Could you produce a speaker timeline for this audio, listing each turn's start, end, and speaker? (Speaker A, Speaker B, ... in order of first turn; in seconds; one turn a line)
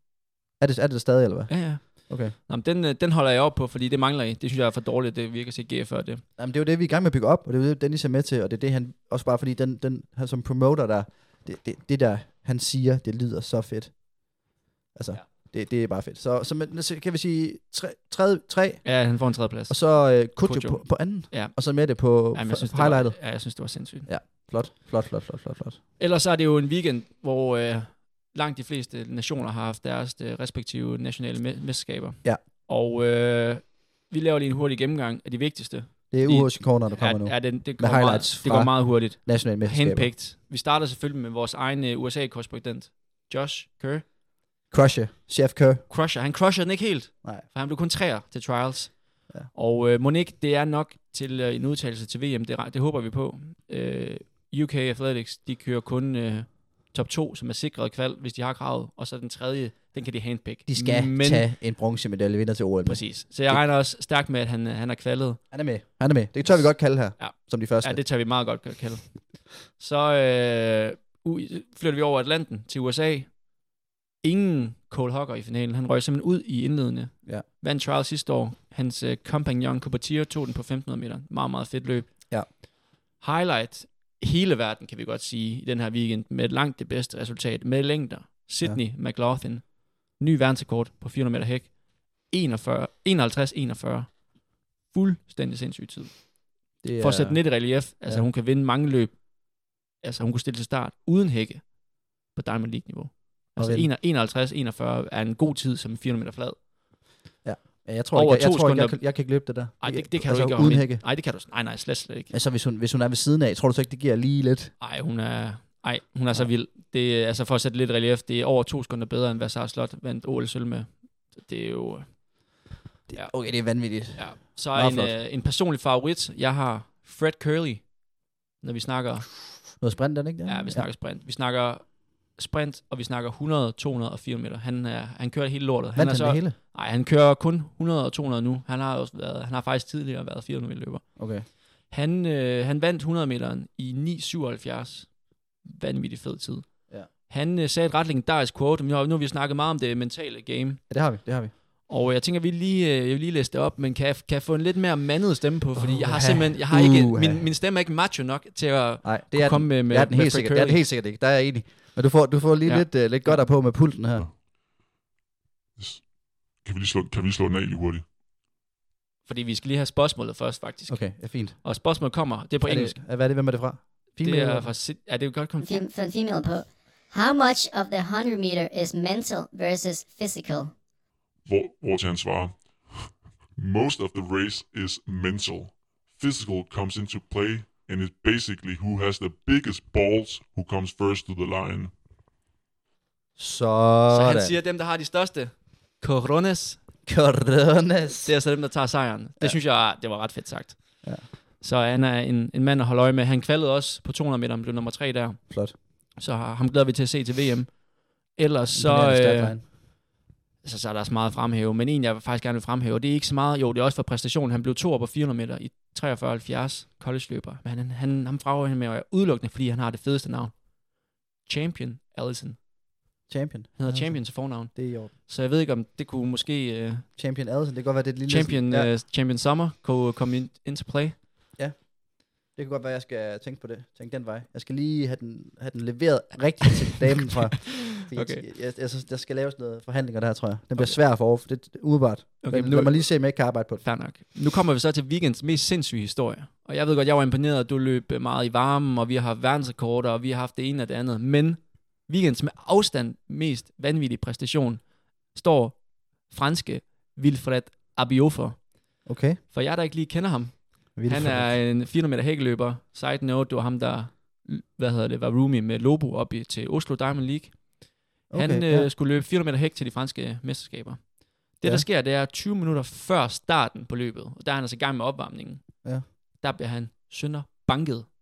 Speaker A: 0.6-2.4
Speaker B: 1.5-6.2
Speaker A: 6.4-14.3
Speaker A: 14.9-25.8
Speaker B: 18.8-24.1
Speaker B: 26.0-44.1
Speaker A: 36.1-40.1
Speaker A: 44.7-45.9
Speaker B: 45.9-61.5
Speaker A: 60.7-63.6
Speaker B: 62.9-65.4
Speaker A: 65.5-68.0
Speaker B: 66.5-73.5
Speaker B: 74.2-82.6
Speaker B: 83.2-94.3
Speaker B: 94.8-99.4
Speaker A: 96.8-98.3
Speaker B: 100.0-106.6
Speaker A: 103.6-103.9
Speaker A: 107.4-111.1
Speaker B: 108.1-112.3
Speaker A: 112.3-114.7
Speaker B: 114.8-122.3
Speaker A: 123.1-125.2
Speaker B: 123.1-128.0
Speaker B: 128.6-129.4
Speaker A: 129.8-130.9
Speaker B: 130.4-150.8
Speaker A: 135.9-136.6
Speaker A: 141.2-141.5
Speaker A: 150.9-151.5
Speaker B: 151.9-160.8
Speaker A: 155.8-157.5
Speaker A: 159.0-164.3
Speaker B: 162.7-163.5
Speaker C: 165.8-168.1
Speaker B: 169.2-173.0
Speaker A: 170.9-174.7
Speaker B: 174.2-175.8
Speaker D: 175.6-180.7
Speaker C: 181.4-191.9
Speaker A: 193.4-194.6
Speaker B: 194.1-196.8
Speaker A: 197.1-198.3
Speaker B: 198.2-209.8
Speaker A: 205.5-205.8
Speaker A: 208.7-209.7
Speaker B: 210.6-220.6
Speaker B: 221.4-222.6
Speaker A: 223.3-225.1
Speaker B: 223.8-227.1
Speaker A: 227.2-228.9
Speaker B: 228.3-231.2
Speaker A: 231.6-243.8
Speaker B: 238.0-238.5
Speaker B: 242.4-278.1
Speaker A: 259.1-259.4
Speaker A: 260.9-261.6
Speaker A: 268.3-268.9